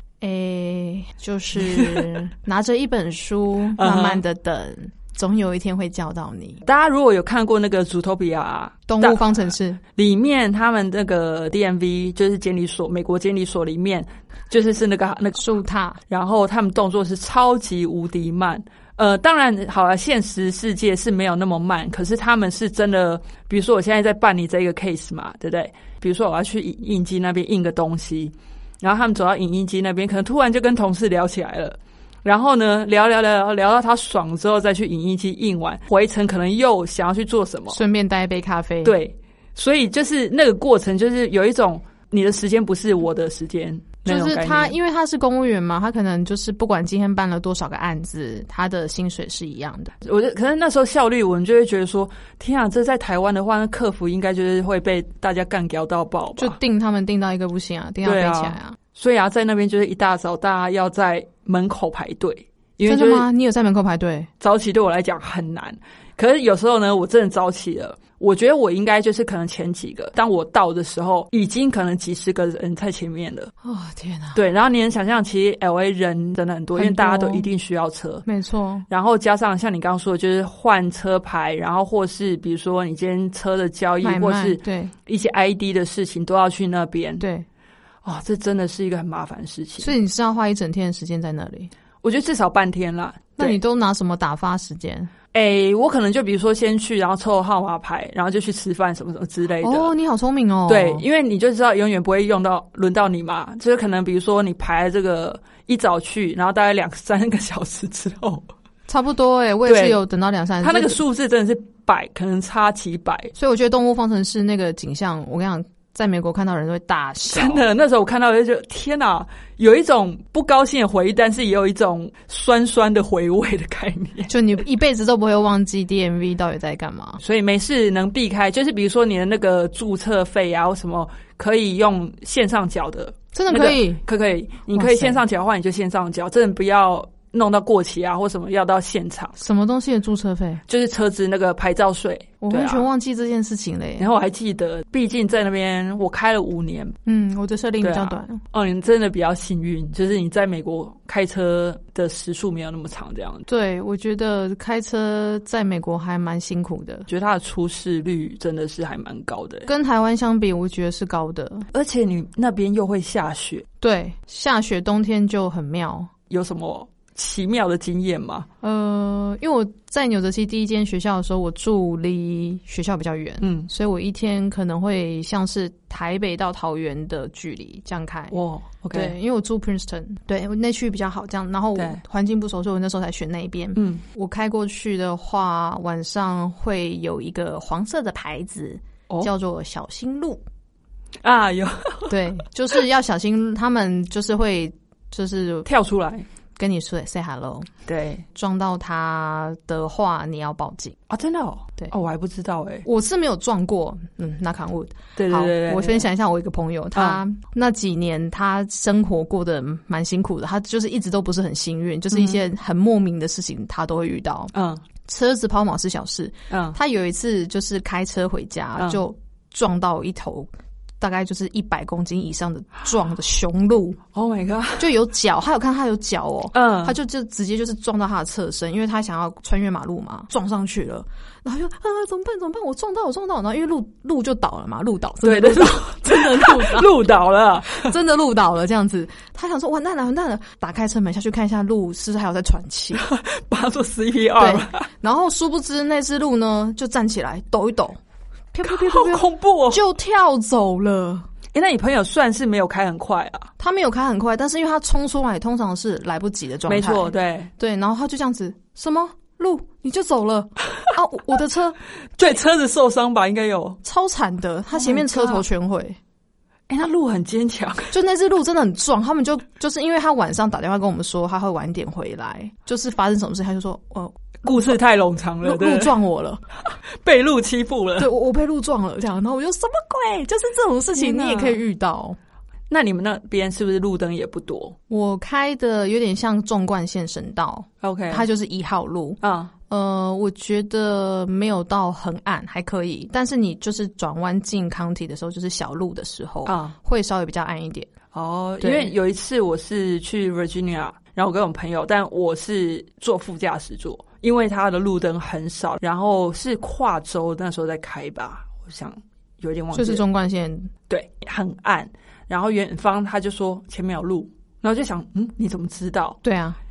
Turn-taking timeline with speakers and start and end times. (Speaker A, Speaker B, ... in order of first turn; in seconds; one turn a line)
Speaker A: 0.2-6.6
Speaker B: 1.6-2.2
Speaker B: 3.8-4.2
Speaker B: 6.6-9.3
Speaker A: 8.9-9.8
Speaker B: 9.9-15.4
Speaker A: 15.4-16.0
Speaker B: 16.1-37.8
Speaker A: 37.7-39.0
Speaker B: 38.8-44.7
Speaker A: 44.0-49.9
Speaker B: 50.0-56.6
Speaker A: 56.4-58.8
Speaker B: 58.0-63.3
Speaker A: 62.8-64.3
Speaker B: 64.4-73.5
Speaker A: 73.6-74.4
Speaker B: 74.3-78.2
Speaker A: 76.7-77.5
Speaker A: 78.2-78.8
Speaker B: 78.9-87.2
Speaker A: 84.0-84.9
Speaker A: 87.2-87.5
Speaker B: 88.0-89.9
Speaker A: 89.8-91.7
Speaker B: 92.0-93.6
Speaker A: 93.4-95.1
Speaker B: 95.3-99.9
Speaker A: 99.6-101.0
Speaker B: 100.7-108.5
Speaker A: 108.9-111.0
Speaker B: 109.7-110.0
Speaker B: 110.6-113.3
Speaker A: 113.3-117.6
Speaker B: 117.3-124.3
Speaker A: 124.3-127.2
Speaker B: 127.2-139.4
Speaker A: 133.3-134.0
Speaker A: 134.7-135.2
Speaker A: 139.4-140.6
Speaker B: 140.7-142.9
Speaker A: 142.4-144.1
Speaker B: 144.0-146.9
Speaker A: 147.0-148.4
Speaker B: 147.8-153.4
Speaker A: 153.5-157.1
Speaker B: 157.1-159.7
Speaker A: 159.7-161.7
Speaker B: 161.7-163.7
Speaker A: 163.8-166.1
Speaker B: 166.3-168.5
Speaker A: 168.6-178.3
Speaker B: 173.4-173.7
Speaker B: 178.3-179.1
Speaker A: 178.9-190.4
Speaker B: 183.8-184.0
Speaker B: 191.2-192.2
Speaker A: 192.1-195.7
Speaker B: 195.7-196.2
Speaker A: 196.6-197.7
Speaker B: 197.8-198.2
Speaker A: 198.3-201.0
Speaker B: 201.1-202.8
Speaker A: 202.8-214.5
Speaker B: 205.2-206.1
Speaker B: 206.9-207.2
Speaker B: 212.1-212.4
Speaker B: 214.5-214.8
Speaker A: 215.1-220.5
Speaker B: 216.5-216.8
Speaker A: 221.0-224.0
Speaker B: 224.1-224.9
Speaker A: 224.8-236.9
Speaker B: 226.5-226.9
Speaker B: 235.2-237.9
Speaker A: 237.7-243.0
Speaker B: 242.9-244.9
Speaker A: 244.4-248.0
Speaker A: 248.5-251.3
Speaker B: 248.6-249.8
Speaker B: 251.5-253.5
Speaker A: 253.6-261.8
Speaker B: 256.7-257.5
Speaker B: 262.2-263.8
Speaker A: 263.8-266.0
Speaker B: 264.7-265.4
Speaker B: 266.7-267.9
Speaker A: 267.9-274.8
Speaker B: 274.4-276.0
Speaker A: 275.4-276.4
Speaker B: 276.9-278.1
Speaker A: 278.0-282.2
Speaker B: 280.9-281.6
Speaker B: 282.7-284.8
Speaker A: 284.9-297.9
Speaker B: 287.8-288.2
Speaker B: 289.2-289.5
Speaker B: 296.4-296.7
Speaker B: 298.1-310.0
Speaker A: 298.6-298.9
Speaker A: 309.7-310.7
Speaker B: 310.9-316.2
Speaker A: 316.2-316.6